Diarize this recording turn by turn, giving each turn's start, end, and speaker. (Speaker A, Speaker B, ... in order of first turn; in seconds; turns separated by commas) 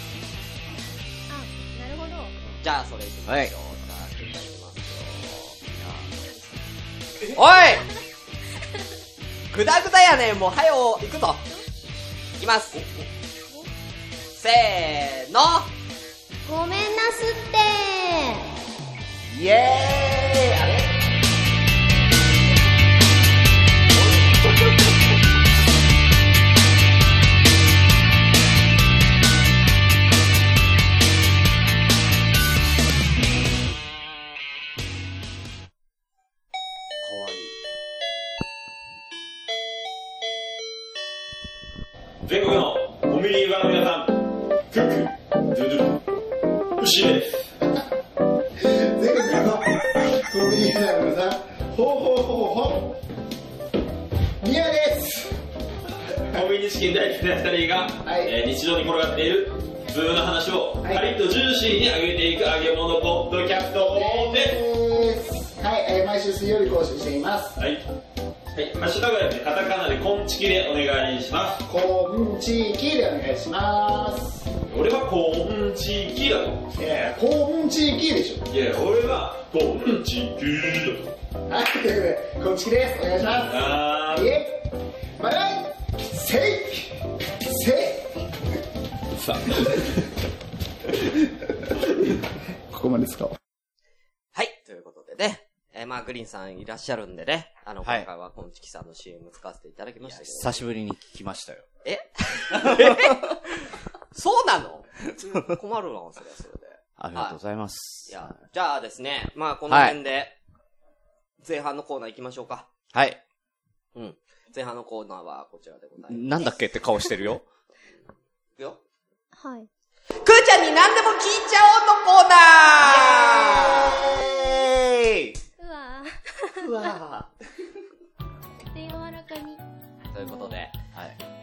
Speaker A: 1.3-2.3, Speaker B: 2.6-5.6, Speaker C: 3.3-3.5, Speaker C: 5.7-6.0, Speaker A: 6.1-6.6, Speaker B: 7.3-7.9, Speaker B: 9.5-11.4, Speaker B: 12.4-12.8, Speaker C: 12.7-13.0, Speaker B: 14.3-15.7, Speaker A: 16.4-18.5, Speaker C: 19.3-20.9, Speaker C: 37.0-37.5, Speaker D: 42.2-46.0, Speaker D: 46.8-47.5, Speaker E: 48.6-53.0, Speaker E: 54.4-55.4, Speaker D: 56.3-64.6, Speaker E: 58.0-58.3, Speaker E: 63.7-67.6, Speaker D: 67.6-67.8, Speaker D: 68.5-71.6, Speaker E: 71.7-74.6, Speaker D: 74.7-76.7, Speaker E: 76.7-78.4, Speaker D: 78.5-81.1, Speaker E: 81.5-88.3, Speaker D: 83.5-84.3, Speaker E: 89.2-90.0, Speaker E: 90.9-93.4, Speaker B: 94.3-100.6, Speaker C: 100.0-101.7, Speaker B: 101.8-107.4, Speaker C: 102.5-103.4, Speaker C: 107.0-108.2, Speaker B: 108.1-110.3, Speaker C: 109.7-110.0, Speaker B: 111.4-112.7, Speaker C: 112.9-113.2, Speaker B: 113.9-116.5, Speaker C: 116.1-117.5, Speaker A: 119.3-119.7, Speaker B: 120.2-124.1, Speaker C: 122.8-125.3, Speaker A: 125.6-127.0, Speaker C: 126.5-127.3, Speaker A: 128.6-129.6, Speaker B: 130.1-130.7, Speaker A: 130.2-130.6